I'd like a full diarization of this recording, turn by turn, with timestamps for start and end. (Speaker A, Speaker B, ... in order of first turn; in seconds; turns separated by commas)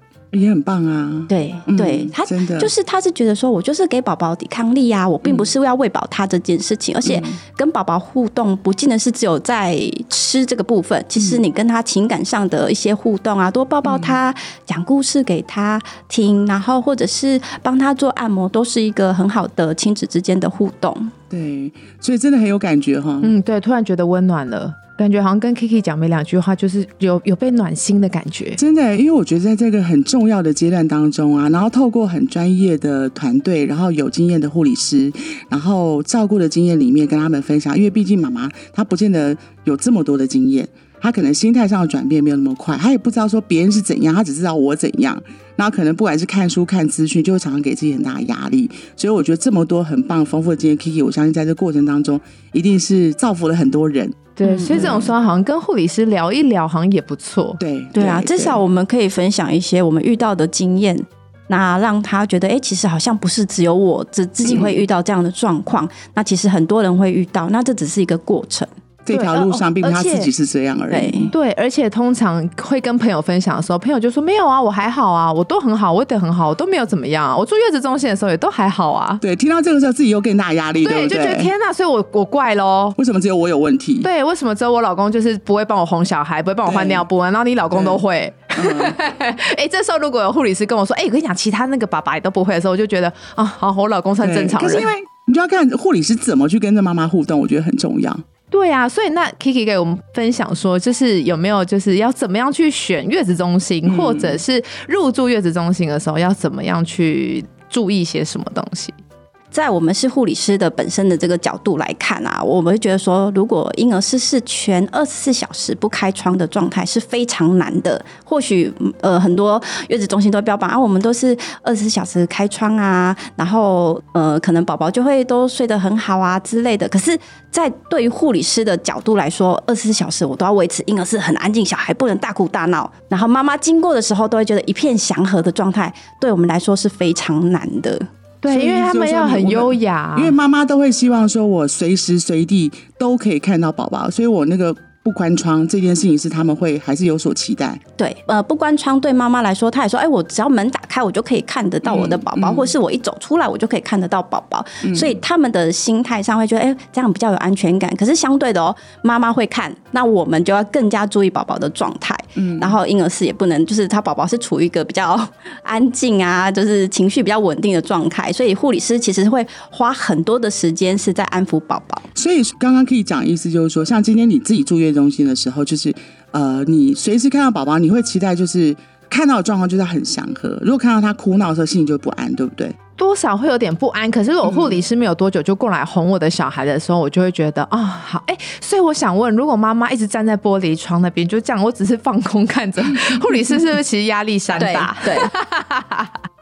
Speaker A: 0.3-2.7, Speaker B: 1.3-21.1, Speaker A: 5.2-5.5, Speaker A: 7.0-7.4, Speaker A: 11.2-11.4, Speaker A: 13.8-14.2, Speaker A: 21.3-23.3, Speaker C: 23.2-28.6, Speaker A: 28.6-55.1, Speaker C: 54.4-57.6, Speaker B: 54.4-55.0, Speaker A: 57.6-58.6, Speaker B: 57.9-68.7, Speaker A: 64.4-64.8, Speaker A: 69.0-71.3, Speaker C: 69.1-70.3, Speaker B: 70.9-71.3, Speaker C: 71.3-79.2, Speaker A: 79.2-81.5, Speaker C: 80.8-83.0, Speaker A: 83.0-84.1, Speaker C: 84.0-94.9, Speaker A: 86.6-87.0, Speaker A: 87.7-88.0, Speaker A: 88.5-89.0, Speaker A: 94.2-98.2, Speaker C: 98.5-108.9, Speaker A: 103.8-104.4, Speaker B: 109.5-138.1, Speaker C: 138.4-140.4, Speaker A: 138.5-147.8, Speaker B: 148.0-172.1, Speaker A: 151.8-152.7, Speaker A: 154.8-155.2, Speaker A: 162.4-162.8, Speaker A: 172.1-182.8, Speaker C: 183.0-196.1, Speaker A: 184.4-184.8, Speaker A: 192.9-193.2, Speaker B: 194.6-195.3